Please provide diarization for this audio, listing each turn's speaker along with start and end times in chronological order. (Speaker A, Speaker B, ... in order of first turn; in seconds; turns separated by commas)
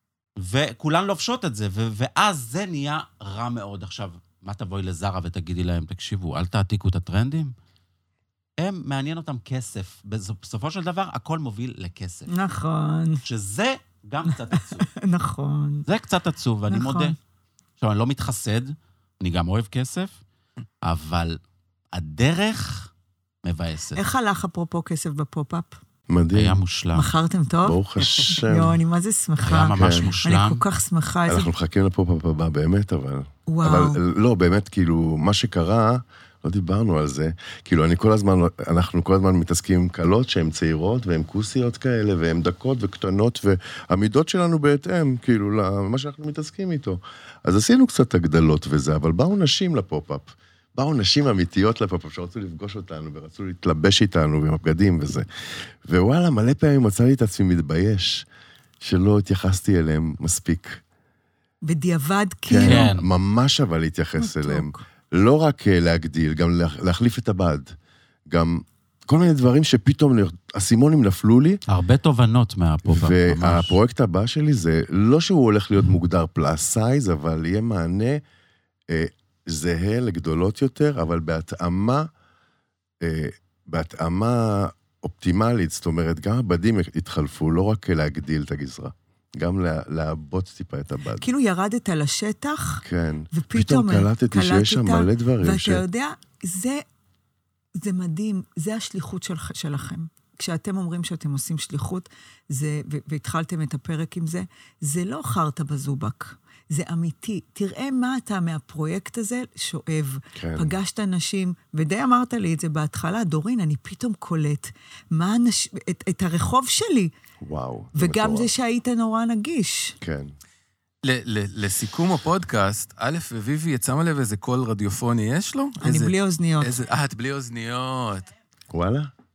Speaker A: 0.4-7.5, Speaker A: 8.6-12.3, Speaker B: 12.3-13.2, Speaker A: 13.3-14.9, Speaker B: 14.3-15.8, Speaker A: 15.9-17.2, Speaker B: 16.7-17.1, Speaker A: 17.8-20.2, Speaker A: 20.8-21.4, Speaker A: 21.9-22.9, Speaker A: 23.4-24.0, Speaker B: 23.9-25.8, Speaker C: 26.1-26.6, Speaker A: 26.3-27.1, Speaker B: 26.9-31.5, Speaker C: 27.6-28.8, Speaker A: 29.4-30.6, Speaker C: 29.7-30.1, Speaker C: 31.3-55.3, Speaker B: 33.5-34.0, Speaker C: 55.9-58.3, Speaker C: 58.8-60.8, Speaker B: 61.6-62.9, Speaker C: 62.5-67.7, Speaker A: 62.6-63.1, Speaker B: 64.2-64.8, Speaker C: 68.3-71.6, Speaker A: 71.7-73.8, Speaker C: 72.9-78.2, Speaker C: 78.9-82.1, Speaker C: 83.0-91.3, Speaker B: 91.2-96.8, Speaker C: 92.8-95.8, Speaker B: 97.8-117.1, Speaker C: 110.3-110.8, Speaker C: 117.4-118.5, Speaker B: 118.0-120.0, Speaker C: 120.0-120.3, Speaker D: 121.0-128.3, Speaker B: 125.8-126.8, Speaker C: 128.7-129.1